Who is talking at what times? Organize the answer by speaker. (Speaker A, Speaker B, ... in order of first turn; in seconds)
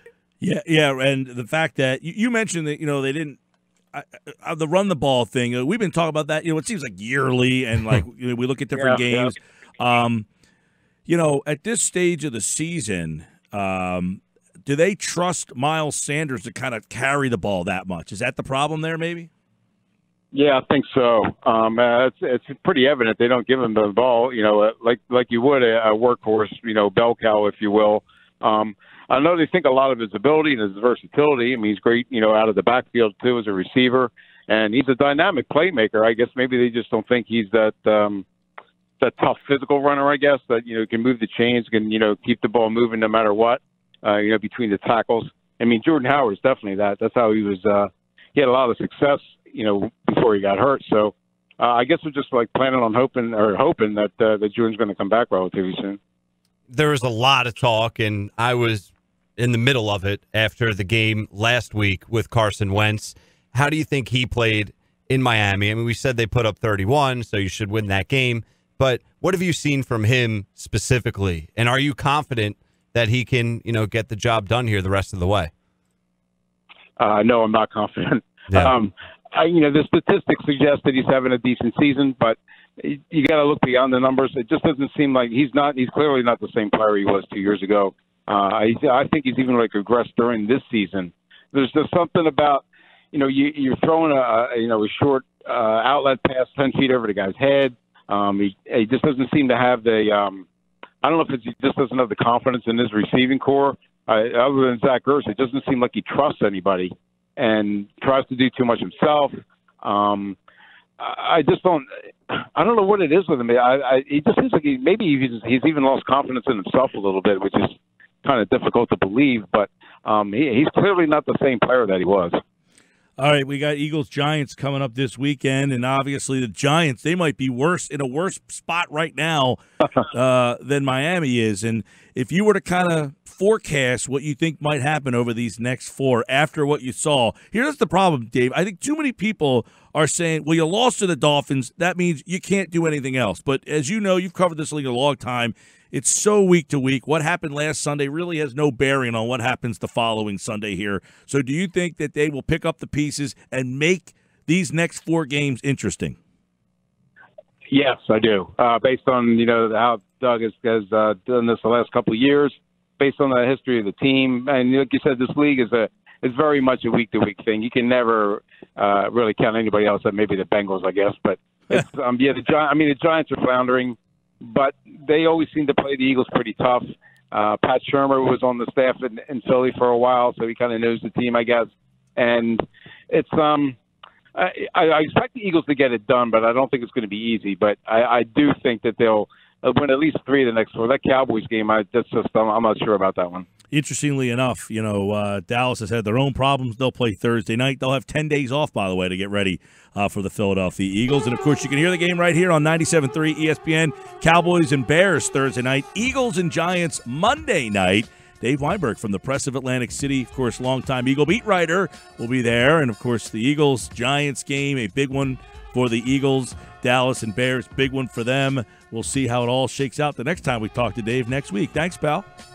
Speaker A: 0.4-3.4, 3.9-10.3, 11.1-19.3, 123.2-156.2, 193.7-222.3
Speaker B: 8.7-9.3, 20.3-38.2, 39.0-56.0, 77.0-100.5, 101.0-110.4, 111.0-122.4, 157.7-183.8, 184.3-193.5
Speaker C: 56.7-75.5